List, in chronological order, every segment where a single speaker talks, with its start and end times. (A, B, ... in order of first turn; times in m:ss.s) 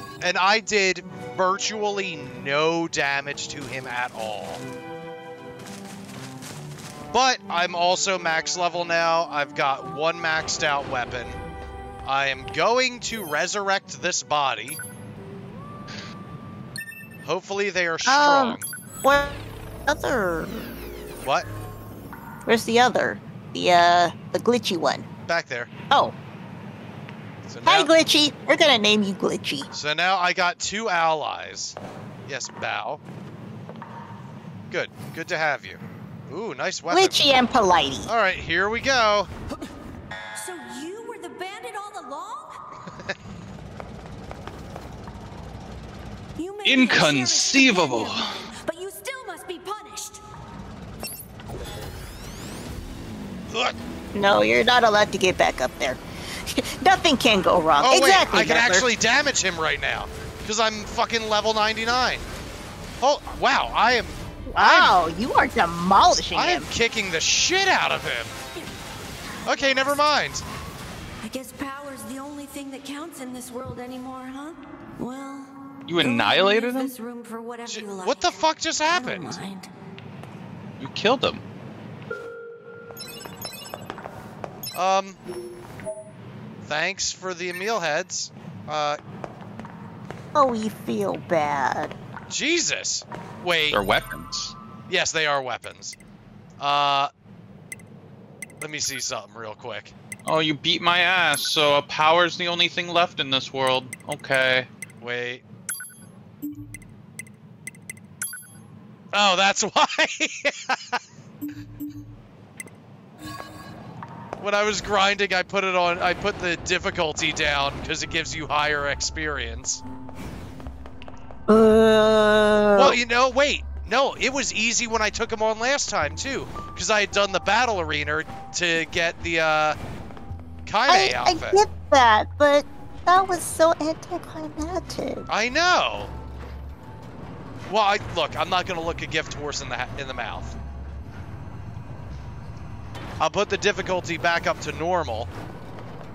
0:00.2-0:04.6 A
0:07.1-0:11.4 A
0:12.0-0:14.8 A
0:17.2-0:18.6 A
0:18.1-0:20.7 B
0:22.5-0:25.1 B
0:25.2-0:25.7 A
0:25.9-0:26.2 B
0:27.4-0:27.9 A
0:27.6-0:29.7 B
0:29.7-0:33.0 A
0:34.7-0:37.2 A
0:36.9-0:38.1 B
0:38.1-0:39.3 A
0:40.4-0:42.6 C
0:46.4-0:50.2 C
0:46.6-0:48.4 D
0:53.5-0:53.8 A
0:54.2-0:58.9 B
0:57.8-1:02.3 A
1:03.0-1:04.9 A
1:04.5-1:06.7 B
1:06.3-1:08.3 A
1:09.4-1:10.0 C
1:09.5-1:10.4 A
1:11.2-1:19.7 C
1:15.9-1:16.9 D
1:17.7-1:19.4 A
1:20.8-1:21.4 D
1:24.8-1:25.2 A
1:26.6-1:29.0 A
1:30.4-1:32.0 B
1:32.3-1:33.8 A
1:33.7-1:34.6 D
1:34.9-1:36.0 A
1:36.6-1:37.1 A
1:38.6-1:39.9 A
1:40.2-1:44.7 D
1:45.0-1:45.4 A
1:49.1-1:51.0 A
1:54.4-1:59.8 A
2:01.5-2:03.0 B
2:02.8-2:09.8 A
2:10.7-2:11.6 A
2:10.9-2:15.3 B
2:15.3-2:16.1 A
2:17.7-2:20.6 A
2:23.2-2:25.3 A